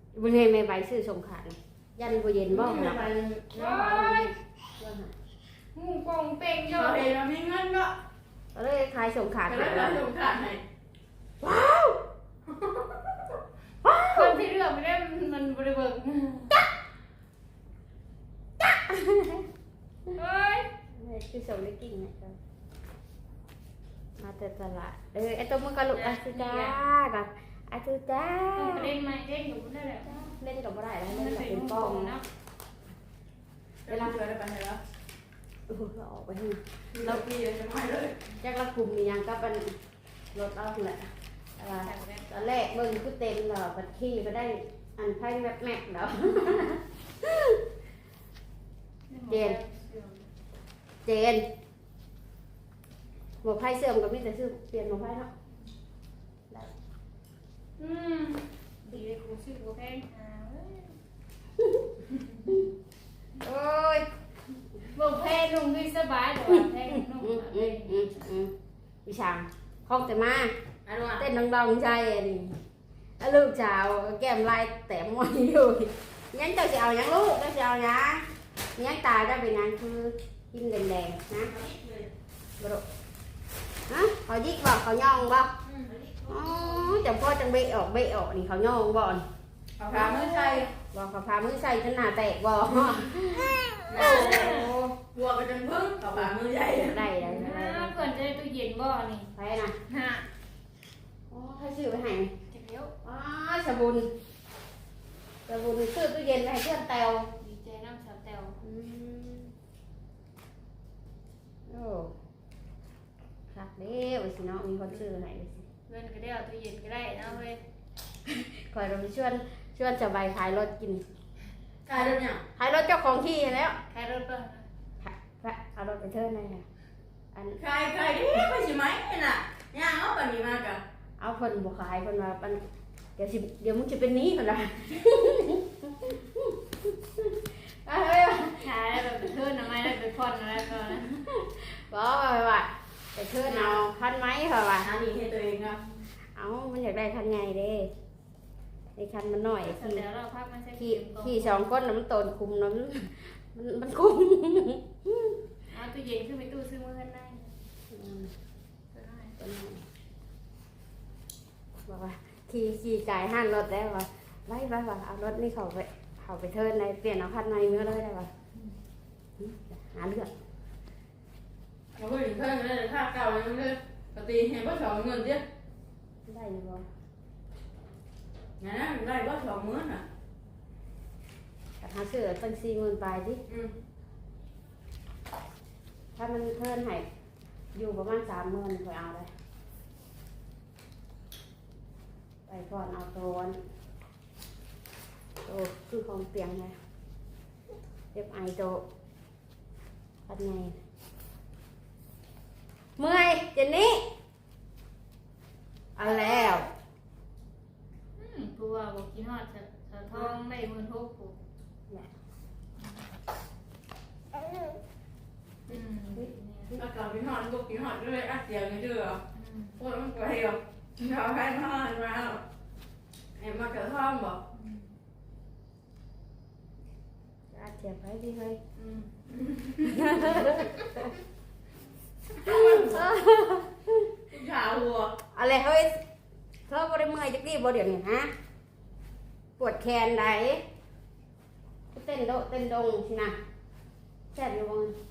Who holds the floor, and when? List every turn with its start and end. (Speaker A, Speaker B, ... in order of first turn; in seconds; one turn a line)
Speaker A: 0.1-3.0
Speaker B: 2.5-3.9
Speaker C: 3.5-4.3
Speaker A: 3.6-5.1
Speaker C: 5.7-7.1
Speaker B: 6.7-7.9
Speaker A: 8.5-10.0
Speaker B: 9.4-10.6
Speaker A: 11.4-12.0
Speaker B: 12.5-13.1
Speaker A: 13.8-14.4
Speaker C: 14.1-16.6
Speaker A: 18.6-19.5
Speaker C: 20.1-20.7
Speaker A: 20.9-22.4
Speaker A: 24.2-28.9
Speaker C: 25.9-26.8
Speaker C: 28.5-30.1
Speaker A: 30.1-32.1
Speaker C: 31.1-32.2
Speaker B: 33.9-34.8
Speaker A: 33.9-34.2
Speaker A: 35.7-37.2
Speaker B: 36.9-38.2
Speaker A: 38.4-39.7
Speaker A: 40.3-47.6
Speaker C: 41.8-42.3
Speaker C: 49.1-50.3
Speaker A: 49.3-49.6
Speaker A: 51.0-51.4
Speaker A: 53.4-55.3
Speaker C: 57.8-61.0
Speaker A: 61.6-61.8
Speaker A: 63.4-64.1
Speaker C: 64.9-68.1
Speaker A: 66.5-68.5
Speaker A: 69.0-70.5
Speaker B: 70.8-71.2
Speaker A: 71.2-72.6
Speaker A: 73.2-81.5
Speaker B: 81.5-82.1
Speaker A: 83.9-85.5
Speaker B: 85.7-87.0
Speaker A: 86.3-89.2
Speaker B: 89.8-90.7
Speaker C: 89.9-90.7
Speaker A: 90.9-95.0
Speaker B: 93.9-97.1
Speaker C: 94.0-94.7
Speaker A: 96.7-98.1
Speaker C: 97.2-99.3
Speaker A: 99.3-99.7
Speaker C: 99.9-100.2
Speaker A: 101.3-102.3
Speaker C: 102.5-102.9
Speaker A: 103.0-104.1
Speaker A: 105.5-107.3
Speaker C: 107.4-108.6
Speaker A: 108.6-109.5
Speaker A: 111.7-112.1
Speaker A: 113.5-115.7
Speaker C: 115.9-117.6
Speaker A: 118.3-121.0
Speaker B: 121.8-122.4
Speaker A: 122.6-123.8
Speaker C: 123.9-124.6
Speaker A: 125.0-126.7
Speaker A: 127.3-127.6
Speaker B: 127.6-130.8
Speaker A: 131.2-132.6
Speaker A: 133.2-138.7
Speaker C: 138.6-141.2
Speaker A: 141.3-144.9
Speaker B: 144.8-145.8
Speaker A: 146.3-147.9
Speaker A: 148.9-150.0
Speaker C: 149.6-151.7
Speaker A: 150.8-155.4
Speaker C: 155.7-157.6
Speaker A: 157.9-158.3
Speaker C: 158.9-159.4
Speaker A: 159.4-159.8
Speaker A: 161.9-168.3
Speaker A: 169.4-170.3
Speaker B: 172.0-175.4
Speaker A: 176.2-176.9
Speaker B: 178.6-180.0
Speaker A: 181.8-183.4
Speaker A: 186.2-187.1
Speaker A: 187.7-189.3
Speaker A: 192.5-193.6
Speaker A: 195.4-196.7
Speaker A: 198.1-198.8
Speaker A: 200.3-200.8
Speaker A: 203.0-204.1
Speaker A: 205.9-206.7
Speaker C: 208.2-211.4
Speaker C: 215.7-216.7
Speaker B: 216.7-219.2
Speaker C: 219.3-219.7
Speaker B: 219.8-222.4
Speaker B: 223.4-224.4
Speaker A: 227.5-228.6
Speaker B: 228.8-230.6
Speaker A: 229.8-231.1
Speaker B: 232.3-233.1
Speaker A: 232.4-234.1
Speaker B: 234.3-235.1
Speaker A: 235.3-236.0
Speaker A: 236.7-238.3
Speaker A: 239.6-240.6
Speaker A: 241.9-243.3
Speaker A: 244.3-244.9